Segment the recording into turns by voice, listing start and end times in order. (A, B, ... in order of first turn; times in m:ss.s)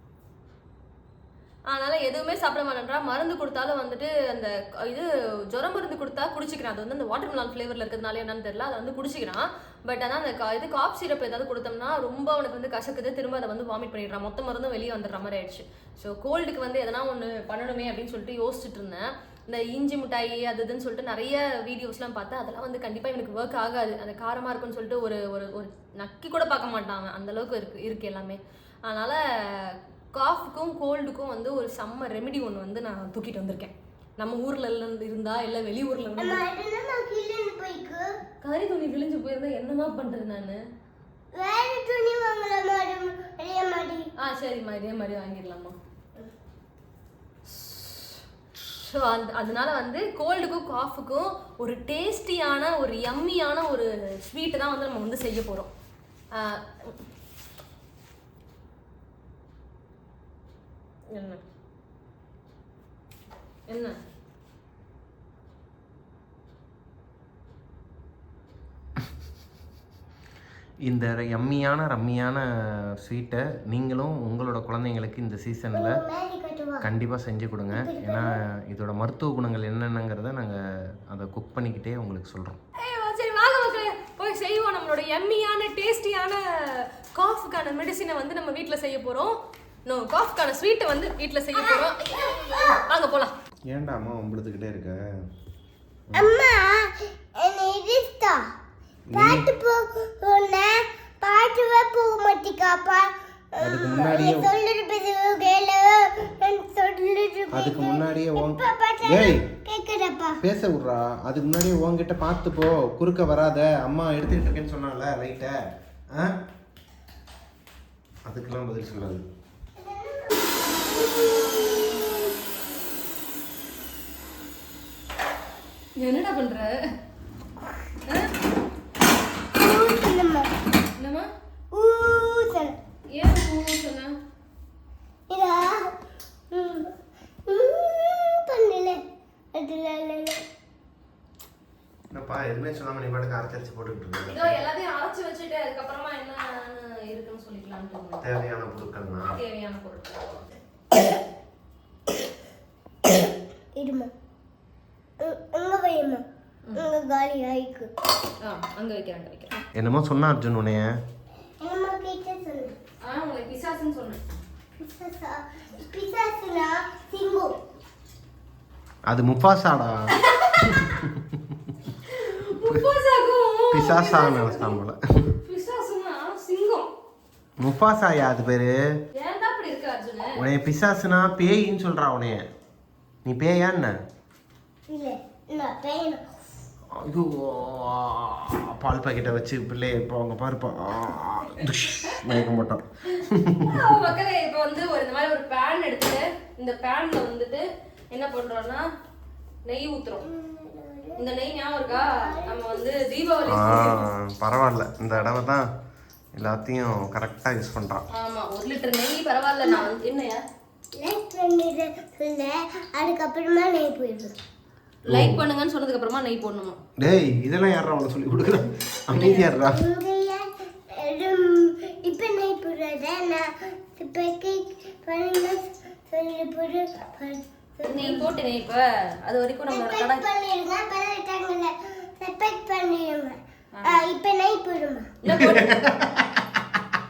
0:01.7-0:36.4 A
0:36.2-0:38.1 B
0:38.4-0:40.6 A
0:41.3-0:44.1 B
0:44.2-0:45.8 A
0:47.5-0:55.7 A
0:56.3-0:57.0 A
1:01.1-1:01.4 A
1:03.7-1:04.0 A
1:10.9-1:12.4 C
1:13.0-1:16.0 C
1:15.7-1:16.9 B
1:16.8-1:22.6 C
1:17.7-1:18.3 B
1:22.8-1:29.4 A
1:29.9-1:33.3 A
1:31.6-1:32.8 B
1:33.7-1:35.0 C
1:36.2-1:38.4 B
1:39.1-1:39.5 C
1:39.1-1:50.4 B
1:43.6-1:44.5 C
1:47.5-1:49.4 C
1:50.4-1:55.6 C
1:58.3-1:59.2 C
1:59.8-2:02.3 B
2:06.0-2:06.7 A
2:08.1-2:08.3 A
2:09.6-2:10.5 B
2:11.0-2:11.3 A
2:11.7-2:12.8 B
2:13.1-2:14.1 A
2:15.3-2:15.9 B
2:16.5-2:16.9 B
2:17.5-2:19.0 B
2:19.5-2:20.4 B
2:22.1-2:24.6 C
2:24.2-2:28.3 A
2:28.2-2:29.4 C
2:29.3-2:30.6 A
2:33.8-2:34.1 B
2:35.2-2:36.2 B
2:36.8-2:37.9 B
2:38.4-2:39.5 A
2:39.8-2:40.9 C
2:41.6-2:42.7 B
2:43.0-2:44.2 A
2:44.8-2:47.6 B
2:49.1-2:51.5 C
2:50.1-2:51.0 A
2:52.0-2:54.8 A
2:53.7-2:55.3 C
2:55.4-2:56.9 A
2:57.6-2:58.7 C
2:59.2-3:00.4 A
3:00.4-3:02.4 C
3:03.2-3:03.9 C
3:04.9-3:06.2 B
3:07.0-3:14.0 C
3:11.6-3:12.4 A
3:13.6-3:18.9 A
3:19.7-3:20.2 A
3:20.2-3:21.2 B
3:21.2-3:24.0 A
3:21.9-3:22.9 B
3:23.5-3:25.6 C
3:26.4-3:28.0 C
3:28.1-3:30.4 A
3:31.0-3:34.3 B
3:35.1-3:36.8 A
3:35.1-3:35.4 C
3:37.0-3:39.8 C
3:39.2-3:39.5 A
3:39.7-3:48.3 B
3:47.8-3:50.2 A
3:49.7-3:55.2 B
3:53.8-3:54.1 A
3:55.2-3:55.9 A
3:55.3-3:56.7 C